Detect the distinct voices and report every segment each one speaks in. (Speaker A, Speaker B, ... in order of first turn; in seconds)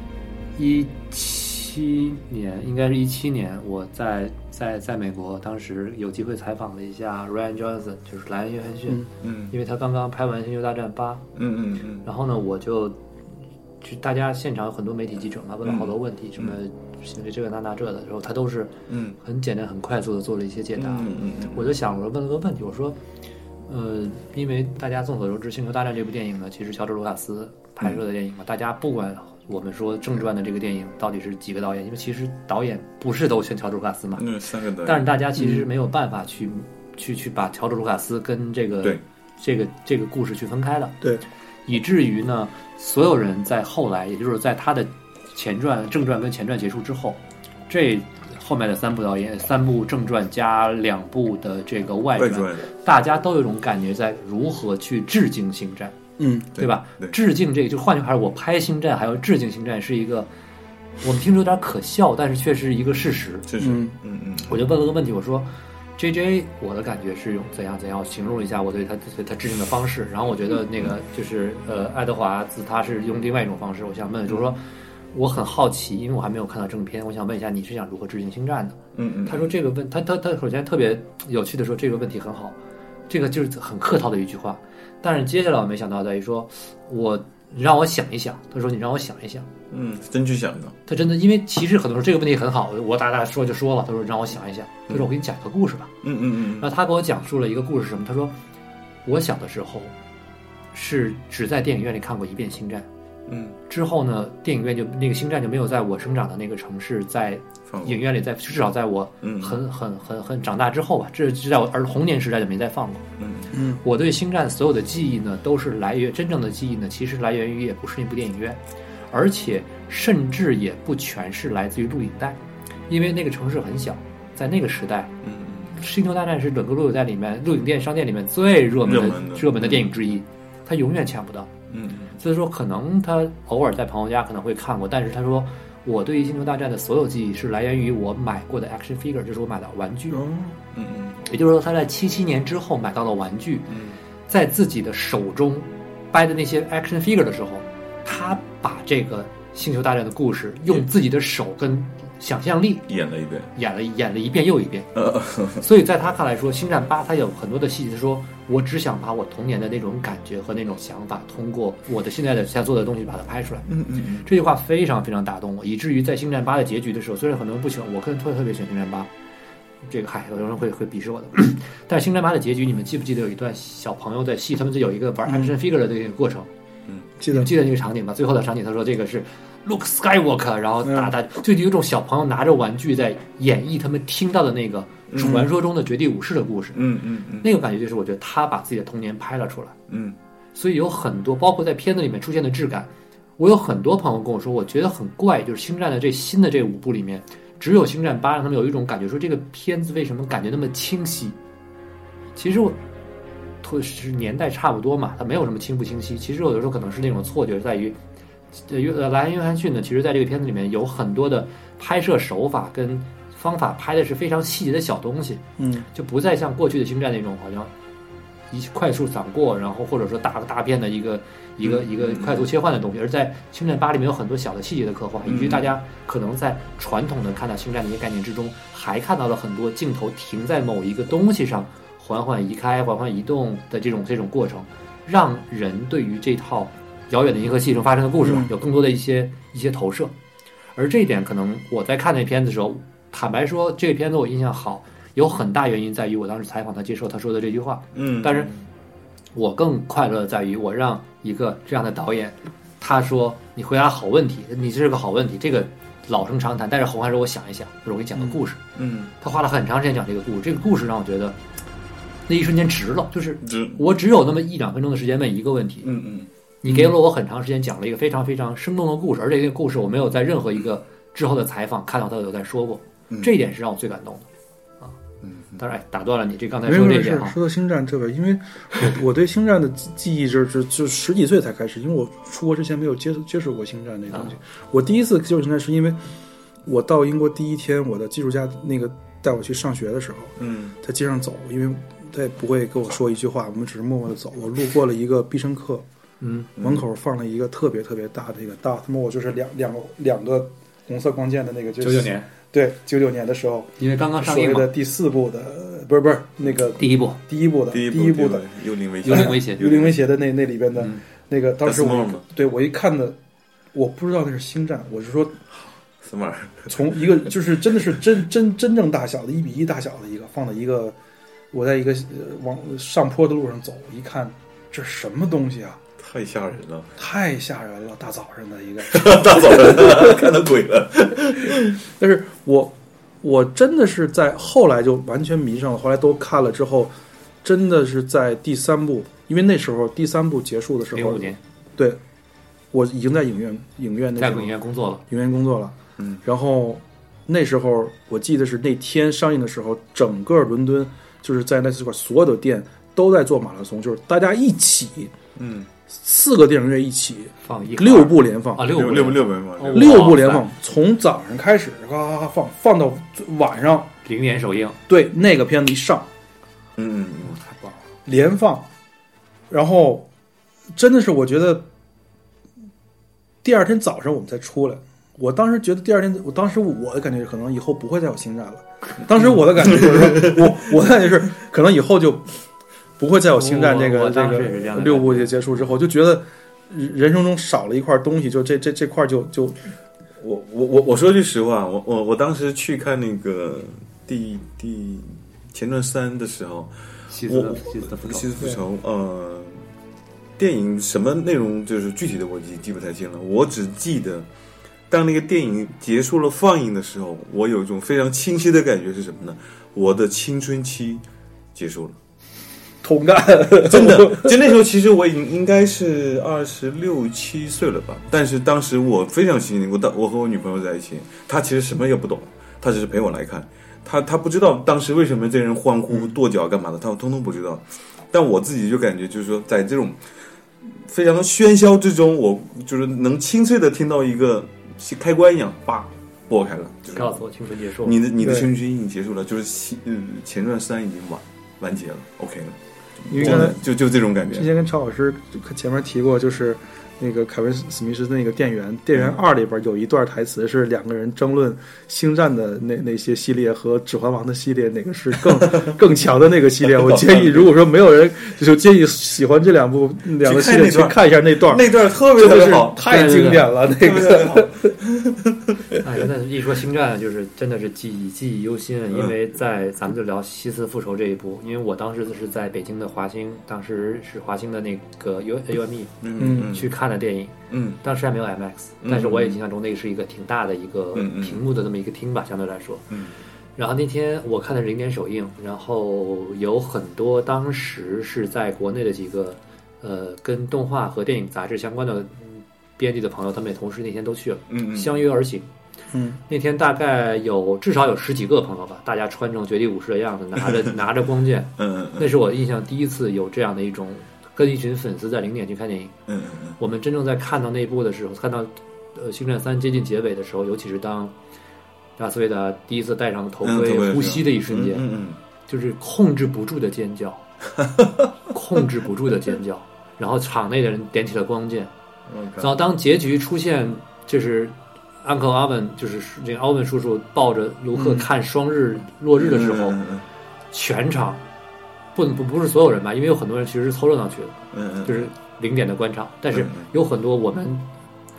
Speaker A: 0.6-11.3, 12.0-13.0, 13.8-23.0, 23.7-41.0, 41.7-56.0, 56.5-60.3, 61.0-63.5, 64.5-82.6, 83.1-89.5, 90.9-95.9, 96.6-98.4, 99.0-99.9, 100.7-102.9, 103.7-113.0, 113.8-122.4, 122.9-125.1, 125.8-131.5, 132.2-140.2, 141.2-143.8, 144.3-152.9, 153.6-154.9, 155.6-169.1, 169.8-176.5, 177.3-186.9, 187.4-189.8, 190.6-201.4, 202.4-202.8, 203.6-208.0, 208.5-217.7, 218.5-240.1, 240.8-248.5, 249.3-258.6, 259.2-261.4, 262.3-265.9, 266.6-274.3, 275.6-277.4, 296.2-296.5, 301.8-302.3, 303.8-304.7, 306.8-307.2, 309.0-309.6, 340.9-341.4, 344.2-345.0, 357.4-360.5, 364.1-364.8, 367.4-367.8, 383.3-385.3, 397.1-398.3, 436.9-438.0, 462.8-463.5, 465.8-482.9, 483.6-495.5, 496.3-505.9, 506.6-511.1, 512.0-514.9, 515.5-517.3, 518.3-521.7, 522.4-529.8, 530.5-531.2, 532.0-537.7
Speaker B: 9.2-9.5, 11.3-12.1, 15.6-16.6, 18.9-19.2, 20.8-21.7, 34.2-35.1, 52.2-52.6, 56.6-57.2, 63.5-64.6, 79.0-79.5, 89.7-90.8, 96.0-96.7, 103.3-103.6, 107.7-108.0, 109.2-109.6, 113.2-113.6, 125.2-125.8, 128.8-129.9, 131.7-132.2, 140.7-141.2, 143.7-144.0, 152.9-153.5, 154.9-155.7, 163.7-164.3, 185.1-185.4, 186.7-187.5, 189.9-190.2, 221.6-222.5, 225.2-225.7, 247.9-248.6, 258.8-259.1, 263.4-263.8, 265.8-266.3, 275.2-275.6, 290.4-290.8, 296.6-296.8, 307.7-310.1, 311.6-312.2, 316.0-317.1, 326.0-326.9, 328.9-331.8, 355.4-355.7, 358.7-360.2, 366.8-367.4, 379.8-380.4, 390.2-399.7, 400.4-404.3, 404.9-411.0, 411.6-412.0, 413.5-437.2, 437.8-444.5, 455.4-455.8, 456.8-457.5, 460.2-462.8, 463.7-465.8, 476.0-476.7, 477.5-477.8, 478.8-479.4, 480.9-481.4, 494.5-495.0, 501.6-502.1, 506.1-506.6, 513.4-515.2, 517.6-518.0, 522.1-522.6, 529.2-530.1, 534.5-535.1, 536.3-536.7
Speaker C: 56.2-56.5, 63.6-64.0, 113.5-113.8, 140.1-140.5, 175.3-175.5, 177.2-177.5, 180.8-181.1, 185.2-185.5, 215.6-215.9, 238.2-238.5, 276.7-286.0, 286.7-295.9, 296.6-308.5, 309.1-313.2, 313.7-315.4, 316.7-321.0, 321.5-325.8, 327.0-330.3, 331.4-336.9, 337.4-342.0, 342.7-344.5, 345.1-355.1, 355.9-358.8, 359.7-363.9, 364.9-366.1, 368.1-368.7, 369.5-370.1, 370.8-371.7, 373.4-382.3, 383.0-389.6, 412.8-414.4, 438.2-438.5, 443.1-443.6, 444.3-464.7, 476.2-476.5, 495.9-496.2, 527.8-528.1